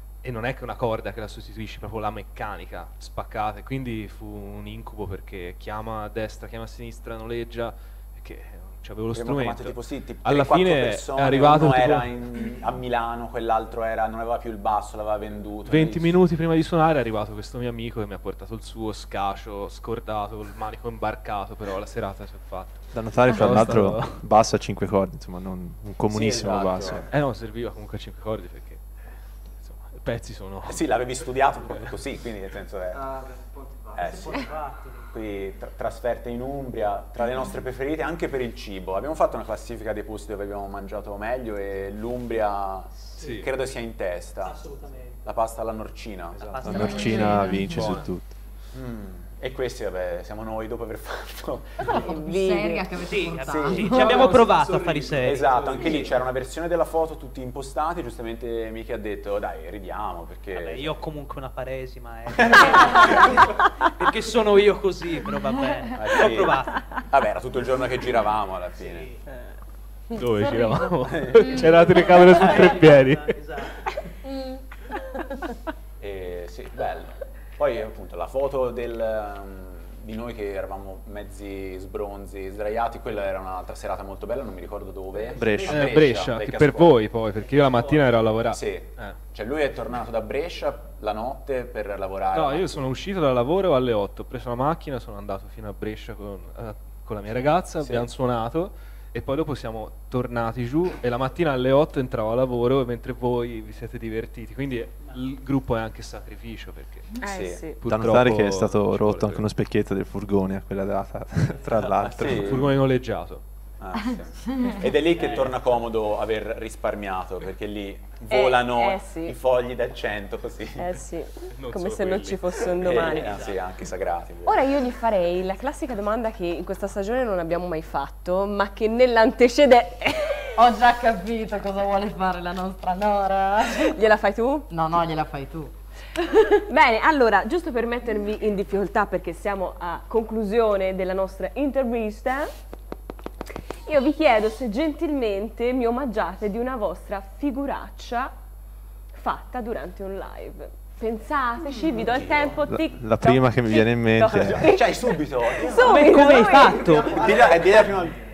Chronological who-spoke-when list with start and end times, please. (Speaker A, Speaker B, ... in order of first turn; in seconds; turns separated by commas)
Speaker A: 0.2-12.1, Speaker B: 9.1-16.1, Speaker A: 15.7-24.2, Speaker C: 22.9-27.1, Speaker B: 26.1-27.1, Speaker A: 27.1-30.9, Speaker B: 30.6-33.1, Speaker B: 33.9-34.6, Speaker B: 35.1-47.2, Speaker A: 43.1-43.5, Speaker D: 44.5-45.2, Speaker A: 46.4-48.1, Speaker C: 46.4-48.3, Speaker D: 46.4-47.7, Speaker E: 46.7-47.6, Speaker B: 48.7-52.1, Speaker E: 51.8-54.5, Speaker F: 52.0-53.0, Speaker D: 52.9-56.1, Speaker B: 53.5-54.4, Speaker A: 54.4-55.9, Speaker B: 55.2-61.1, Speaker D: 60.5-66.9, Speaker B: 62.3-63.3, Speaker B: 66.0-69.1, Speaker D: 68.7-69.2, Speaker A: 70.1-73.4, Speaker B: 71.0-71.6, Speaker E: 71.4-71.7, Speaker D: 71.4-74.0, Speaker E: 74.2-74.6, Speaker B: 76.0-87.0, Speaker D: 85.2-85.7, Speaker C: 85.3-85.9, Speaker A: 85.7-89.2, Speaker D: 87.4-88.0, Speaker B: 88.5-92.9, Speaker A: 92.3-107.2, Speaker B: 97.8-98.1, Speaker F: 107.2-107.8, Speaker B: 107.2-107.6, Speaker A: 107.8-109.5, Speaker C: 107.8-112.7, Speaker B: 111.8-112.7, Speaker A: 112.2-113.4, Speaker B: 113.8-121.0, Speaker E: 114.4-114.8, Speaker F: 118.3-119.4, Speaker F: 120.8-123.5, Speaker A: 121.5-123.2, Speaker B: 122.8-124.7, Speaker D: 123.0-123.6, Speaker F: 124.4-130.6, Speaker E: 130.6-134.0, Speaker F: 133.8-134.7, Speaker E: 134.7-136.4, Speaker F: 136.7-142.5, Speaker F: 143.8-148.3, Speaker F: 149.1-157.2, Speaker B: 151.8-152.6, Speaker C: 152.6-154.7, Speaker B: 154.2-158.2, Speaker D: 155.6-157.3